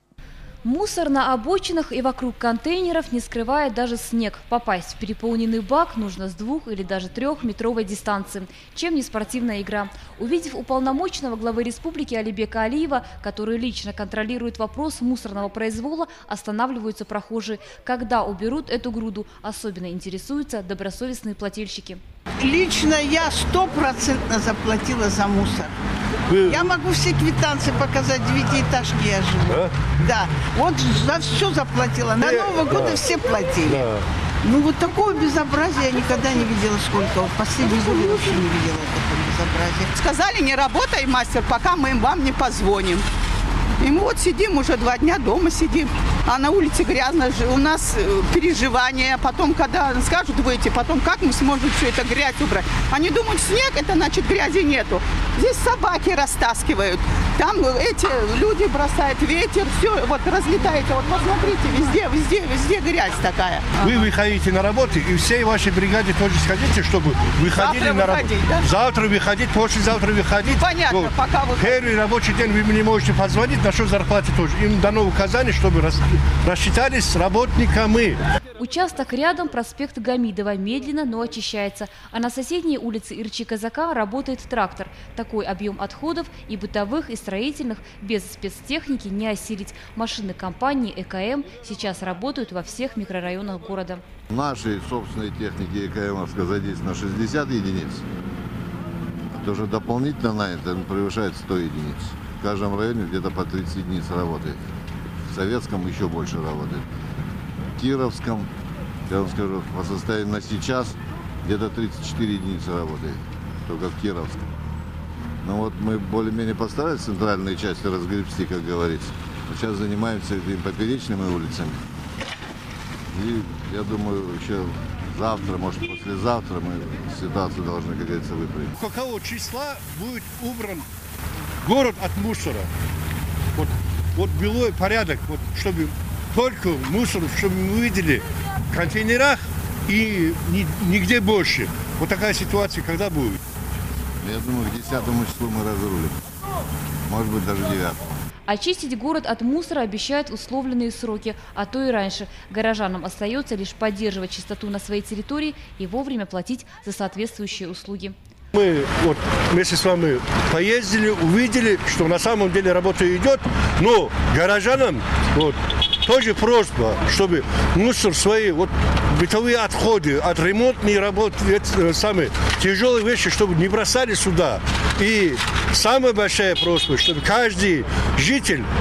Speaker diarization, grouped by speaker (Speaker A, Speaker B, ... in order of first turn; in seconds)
Speaker A: 0.6-22.0, 78.6-94.0, 148.5-158.1
Speaker B: 22.4-25.8, 26.4-33.9, 34.4-39.9, 70.8-71.6
Speaker C: 26.3-26.6, 29.5-29.9, 32.2-33.0, 33.6-34.0, 63.8-78.2, 128.8-130.8, 131.6-132.7, 133.5-143.4, 158.5-178.7
Speaker D: 40.0-43.0, 43.8-63.8
Speaker E: 94.3-98.0, 99.3-104.6, 105.3-106.9, 107.8-108.5, 109.1-114.5, 115.4-121.8, 123.1-128.8, 144.2-146.2, 147.1-148.1